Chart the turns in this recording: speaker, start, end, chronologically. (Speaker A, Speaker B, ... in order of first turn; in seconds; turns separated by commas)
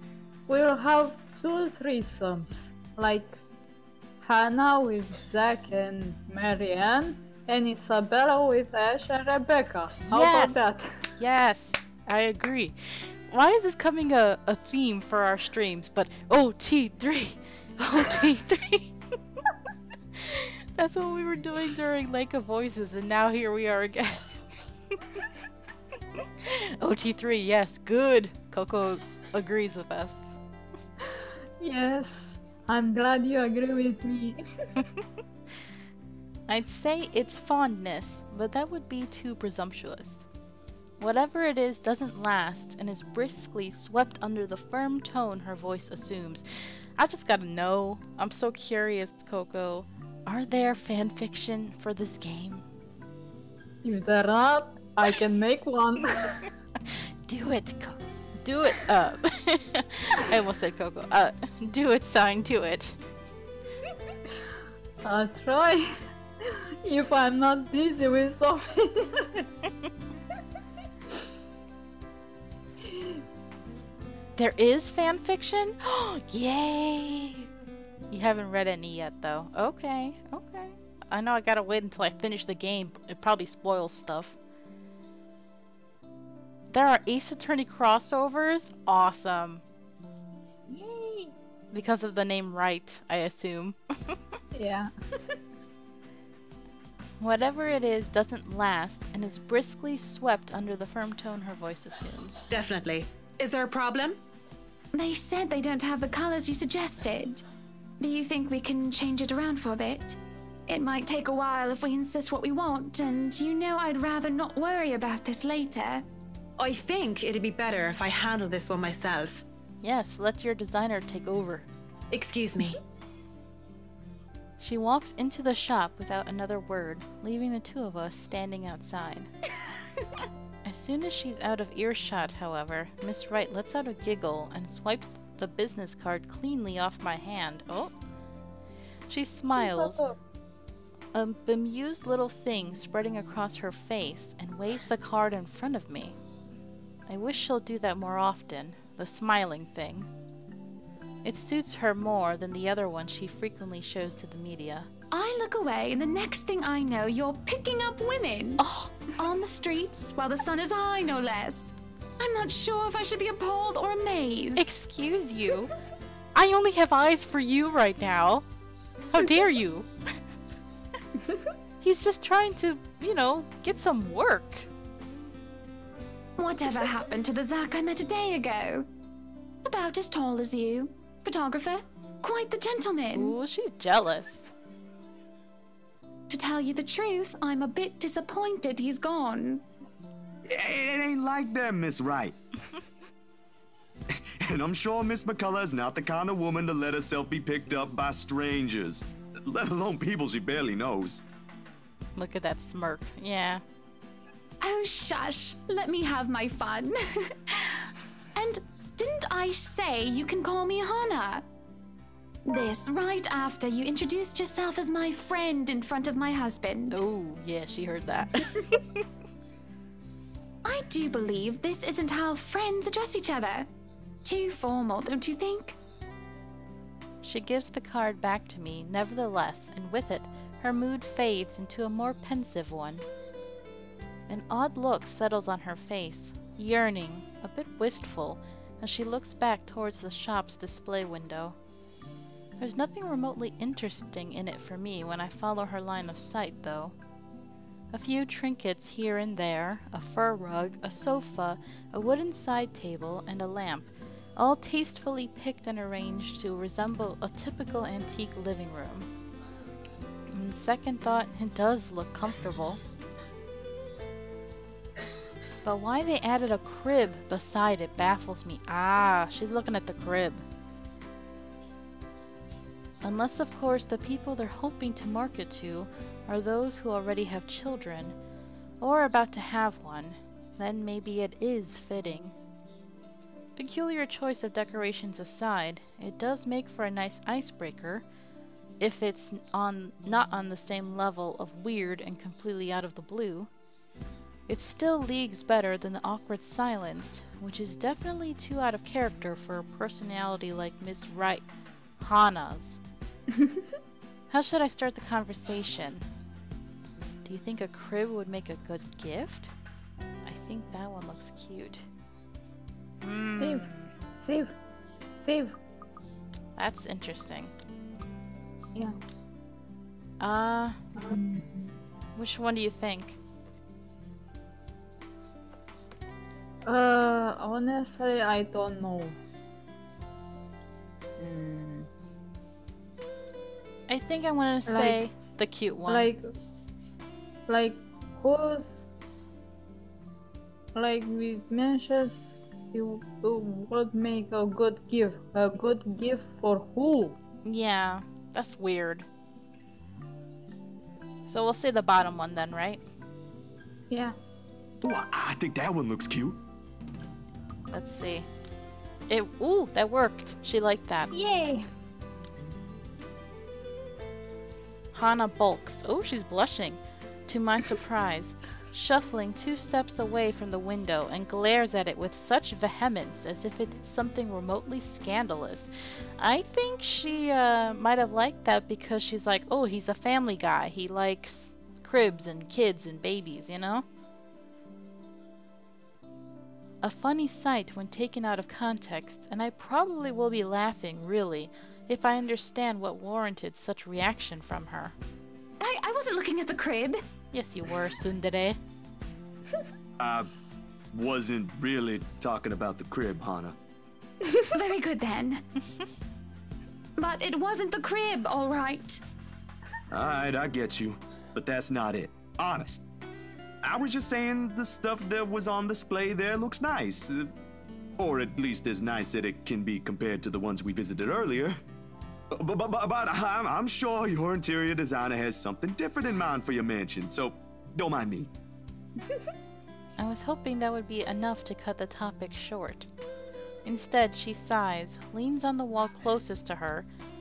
Speaker A: 0.5-3.4, Speaker A: 4.2-11.0, Speaker B: 10.1-10.6, Speaker B: 11.2-18.9, Speaker B: 20.1-24.4, Speaker B: 26.4-30.4, Speaker A: 31.6-34.4, Speaker B: 36.5-40.2, Speaker B: 41.0-52.6, Speaker A: 53.8-56.4, Speaker B: 57.3-63.0, Speaker A: 65.0-69.5, Speaker A: 72.8-73.2, Speaker B: 74.4-77.5, Speaker B: 78.1-84.4, Speaker B: 86.7-89.6, Speaker A: 90.7-91.3, Speaker B: 91.7-94.3, Speaker A: 94.5-95.4, Speaker B: 97.2-102.5, Speaker C: 102.5-104.2, Speaker D: 104.9-107.4, Speaker D: 108.0-110.2, Speaker D: 110.7-116.0, Speaker C: 116.6-119.4, Speaker B: 119.8-121.7, Speaker C: 122.1-122.8, Speaker B: 124.6-129.3, Speaker B: 130.7-137.9, Speaker B: 139.1-140.0, Speaker A: 139.6-140.2, Speaker B: 141.1-146.2, Speaker B: 147.1-150.1, Speaker B: 151.2-154.9, Speaker D: 155.1-158.6, Speaker B: 158.6-159.1, Speaker D: 159.2-164.8, Speaker B: 164.6-165.7, Speaker B: 166.3-168.4, Speaker B: 169.1-170.1, Speaker B: 171.8-174.7, Speaker D: 176.4-178.9, Speaker D: 179.6-183.3, Speaker B: 183.1-184.5, Speaker D: 186.3-189.6, Speaker E: 190.5-192.4, Speaker E: 194.1-201.2, Speaker B: 202.2-203.6, Speaker D: 204.6-211.4, Speaker D: 212.5-217.0, Speaker B: 216.9-219.1, Speaker D: 220.6-223.7, Speaker D: 224.2-225.8, Speaker B: 227.2-233.0, Speaker B: 234.3-241.6, Speaker B: 242.6-246.9, Speaker B: 247.9-259.1, Speaker B: 260.3-262.8, Speaker B: 265.6-270.4, Speaker B: 273.0-278.1, Speaker B: 278.8-282.3, Speaker B: 283.6-288.0, Speaker B: 288.8-293.5, Speaker B: 294.5-301.4, Speaker B: 302.0-302.8, Speaker A: 303.3-303.6, Speaker B: 304.3-306.1, Speaker B: 307.2-309.5, Speaker B: 310.2-311.9, Speaker B: 313.0-313.9, Speaker A: 313.4-313.7, Speaker A: 314.2-314.6, Speaker A: 315.2-315.6, Speaker B: 316.6-317.5, Speaker B: 320.2-320.8, Speaker A: 321.0-321.7, Speaker B: 322.2-323.2, Speaker A: 326.6-329.2, Speaker A: 331.2-331.9, Speaker B: 333.9-336.1, Speaker A: 334.7-335.0, Speaker A: 335.9-336.3, Speaker A: 337.5-338.9, Speaker A: 340.8-347.2, Speaker B: 347.4-349.1, Speaker B: 351.3-352.8, Speaker A: 353.9-354.2, Speaker E: 354.8-356.4, Speaker B: 357.7-358.3, Speaker B: 359.1-361.1, Speaker A: 361.1-361.7, Speaker B: 364.9-383.9, Speaker B: 386.8-394.9, Speaker D: 395.6-397.0, Speaker B: 397.3-398.6, Speaker E: 400.0-400.3, Speaker E: 400.9-403.6, Speaker D: 404.5-405.4, Speaker D: 407.0-409.0, Speaker E: 409.9-412.9, Speaker E: 413.6-417.3, Speaker E: 418.0-421.6, Speaker E: 422.3-428.3, Speaker B: 430.0-432.9, Speaker B: 433.6-436.9